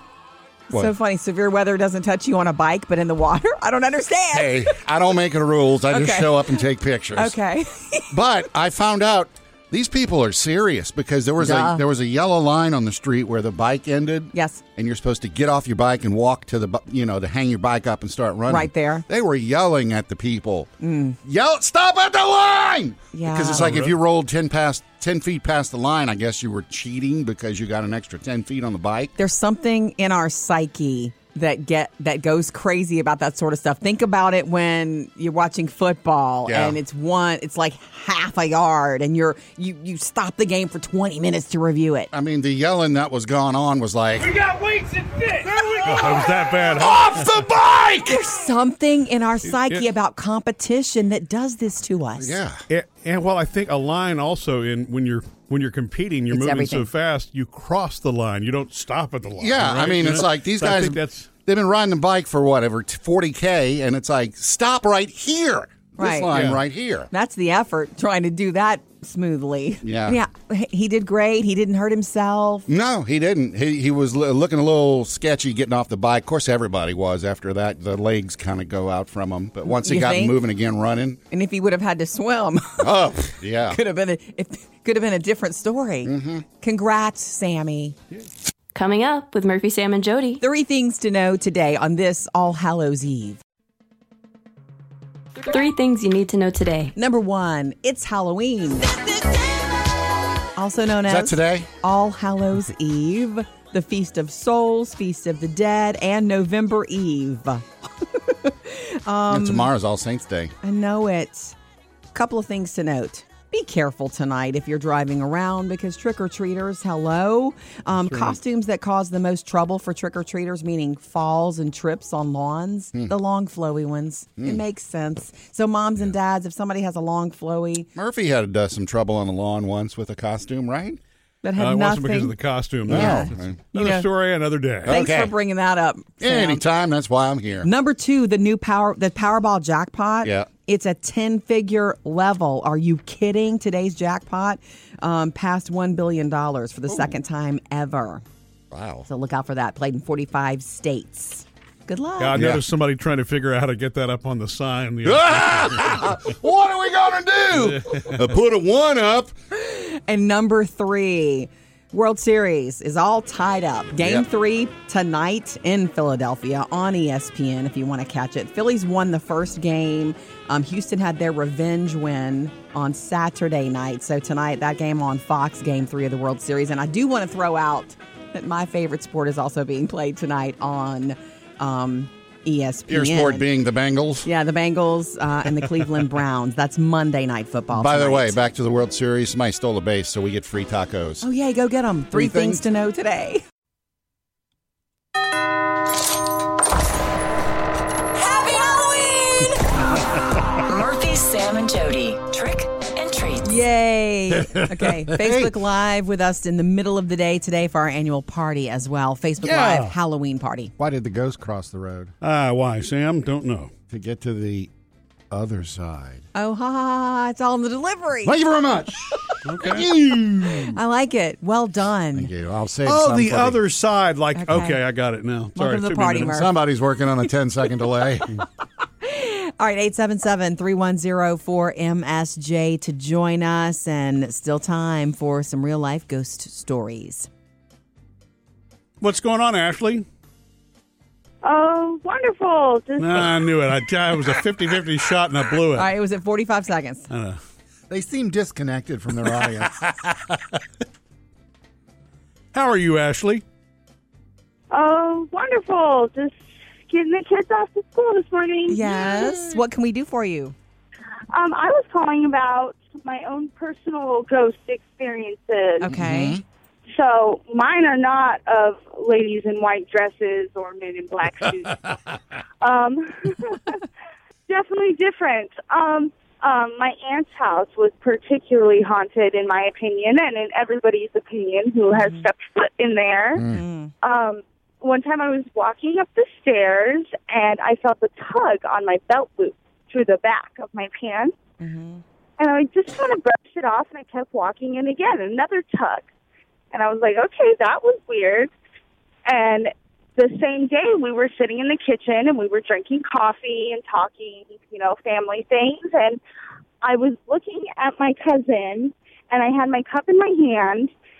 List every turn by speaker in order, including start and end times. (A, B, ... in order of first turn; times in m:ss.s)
0:00.7-0:04.8 A
0:04.3-0:07.4 B
0:05.9-0:08.1 A
0:08.1-0:20.7 B
0:11.4-0:11.8 A
0:14.3-0:14.6 A
0:18.5-0:19.0 A
0:20.8-0:21.2 A
0:21.2-0:29.1 B
0:23.1-0:23.7 A
0:23.5-0:23.9 C
0:29.2-0:42.1 A
0:36.4-0:36.8 B
0:42.1-0:44.6 B
0:45.4-0:48.2 B
0:45.7-0:47.4 C
0:48.0-0:52.4 A
0:49.5-0:49.8 C
0:52.2-0:52.6 B
0:52.7-1:01.3 C
0:56.3-0:56.9 A
0:59.4-1:07.1 B
1:06.0-1:06.4 A
1:06.3-1:06.6 C
1:07.1-1:12.7 A
1:09.8-1:10.2 B
1:12.7-1:21.2 B
1:19.6-1:20.4 A
1:21.3-1:28.0 A
1:22.8-1:23.8 B
1:26.0-1:26.4 B
1:28.7-1:30.4 D
1:30.4-1:33.4 A
1:35.4-1:36.9 D
1:37.0-1:39.0 A
1:40.6-1:49.7 A
1:41.0-1:41.7 B
1:49.3-1:50.5 B
1:50.6-1:51.6 A
1:52.1-2:07.9 A
2:08.0-2:11.0 B
2:11.4-2:12.3 A
2:11.6-2:15.0 C
2:12.9-2:14.1 A
2:12.9-2:13.6 B
2:14.8-2:15.3 B
2:14.8-2:16.6 A
2:16.2-2:17.7 B
2:17.6-2:28.2 A
2:20.2-2:20.5 B
2:28.7-2:29.0 B
2:29.1-2:32.4 A
2:32.2-2:36.2 C
2:32.3-2:32.6 B
2:35.0-2:39.3 B
2:37.6-2:38.2 C
2:39.5-3:03.4 A
2:44.0-2:44.2 B
3:02.9-3:04.3 B
3:04.2-3:08.4 A
3:07.7-3:11.2 B
3:11.2-3:13.4 A
3:12.1-3:12.6 B
3:18.3-3:19.4 E
3:20.5-3:23.5 E
3:23.4-3:30.7 A
3:25.1-3:25.5 B
3:29.4-3:29.9 B
3:29.6-3:29.9 C
3:30.8-3:32.1 B
3:32.2-3:33.7 C
3:33.9-3:34.7 B
3:35.3-3:36.2 B
3:36.3-3:38.4 A
3:38.2-3:40.8 B
3:39.4-3:39.9 C
3:40.4-3:42.3 A
3:42.1-3:43.6 B
3:42.8-3:46.3 C
3:44.3-3:44.8 A
3:45.5-3:46.5 A
3:46.2-3:48.3 B
3:49.0-3:57.3 A
3:59.0-4:00.0 C
4:01.4-4:03.3 F
4:03.0-4:05.9 C
4:05.7-4:07.1 A
4:07.1-4:07.4 C
4:07.9-4:10.2 B
4:12.5-4:13.4 C
4:14.7-4:19.5 F
4:18.7-4:20.5 A
4:21.3-4:25.9 F
4:25.8-4:26.4 A
4:25.9-4:26.4 B
4:26.9-4:31.9 F
4:32.6-4:33.8 F
4:34.5-4:43.5 F
4:41.9-4:42.3 A
4:43.4-4:43.6 B
4:43.5-4:43.9 A
4:44.0-4:51.4 F
4:51.6-4:52.0 A
4:52.4-4:56.1 F
4:56.7-4:58.5 F
4:59.2-5:06.2 F
5:06.8-5:10.9 F